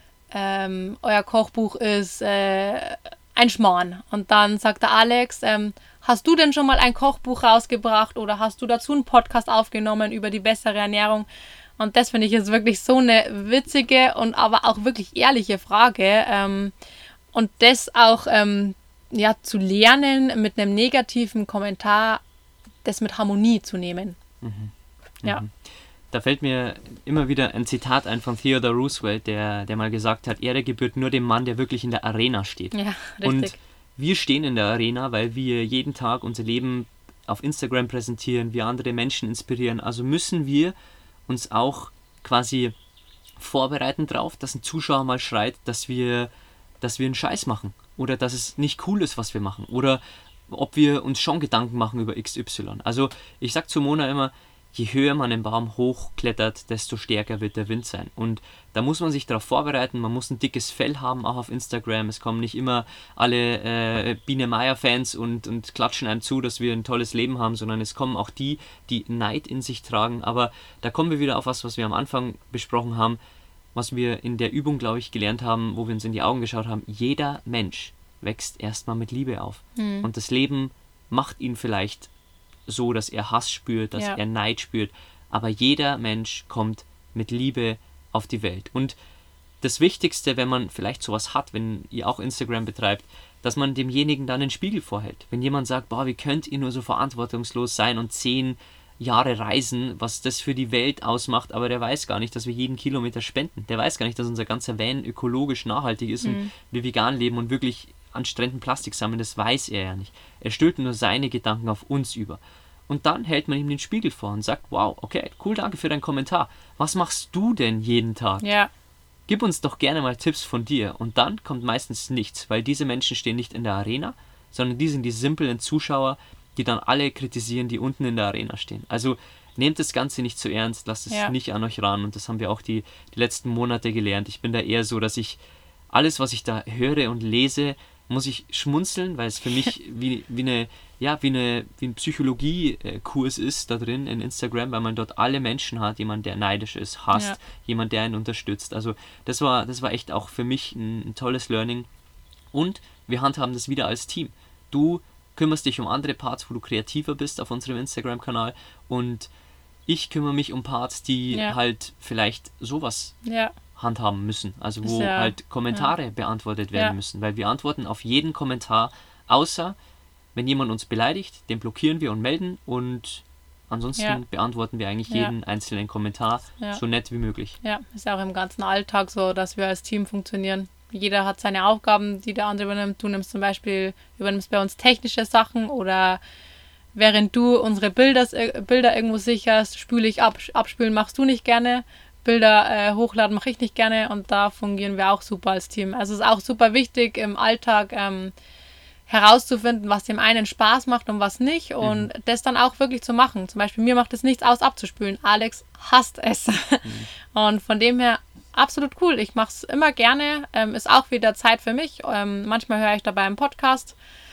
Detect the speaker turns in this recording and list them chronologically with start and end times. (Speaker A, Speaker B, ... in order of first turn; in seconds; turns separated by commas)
Speaker A: 0.3-11.3, Speaker A: 11.8-16.7, Speaker A: 17.3-22.2, Speaker A: 22.8-24.2, Speaker B: 24.4-40.7, Speaker A: 32.7-33.6, Speaker B: 41.3-42.7, Speaker B: 43.4-46.3, Speaker B: 46.8-73.2, Speaker B: 73.7-82.1, Speaker A: 79.8-80.1, Speaker B: 82.7-89.0, Speaker B: 89.6-118.5, Speaker A: 106.2-106.5, Speaker A: 118.4-118.7, Speaker B: 119.3-135.4, Speaker B: 135.9-151.9, Speaker B: 152.5-159.3, Speaker B: 159.9-163.2, Speaker A: 161.3-161.6, Speaker A: 163.2-163.5, Speaker B: 163.8-169.8, Speaker A: 164.8-165.9, Speaker B: 170.3-177.6, Speaker A: 177.6-186.2, Speaker A: 186.9-198.3, Speaker A: 199.1-213.9, Speaker B: 201.8-202.1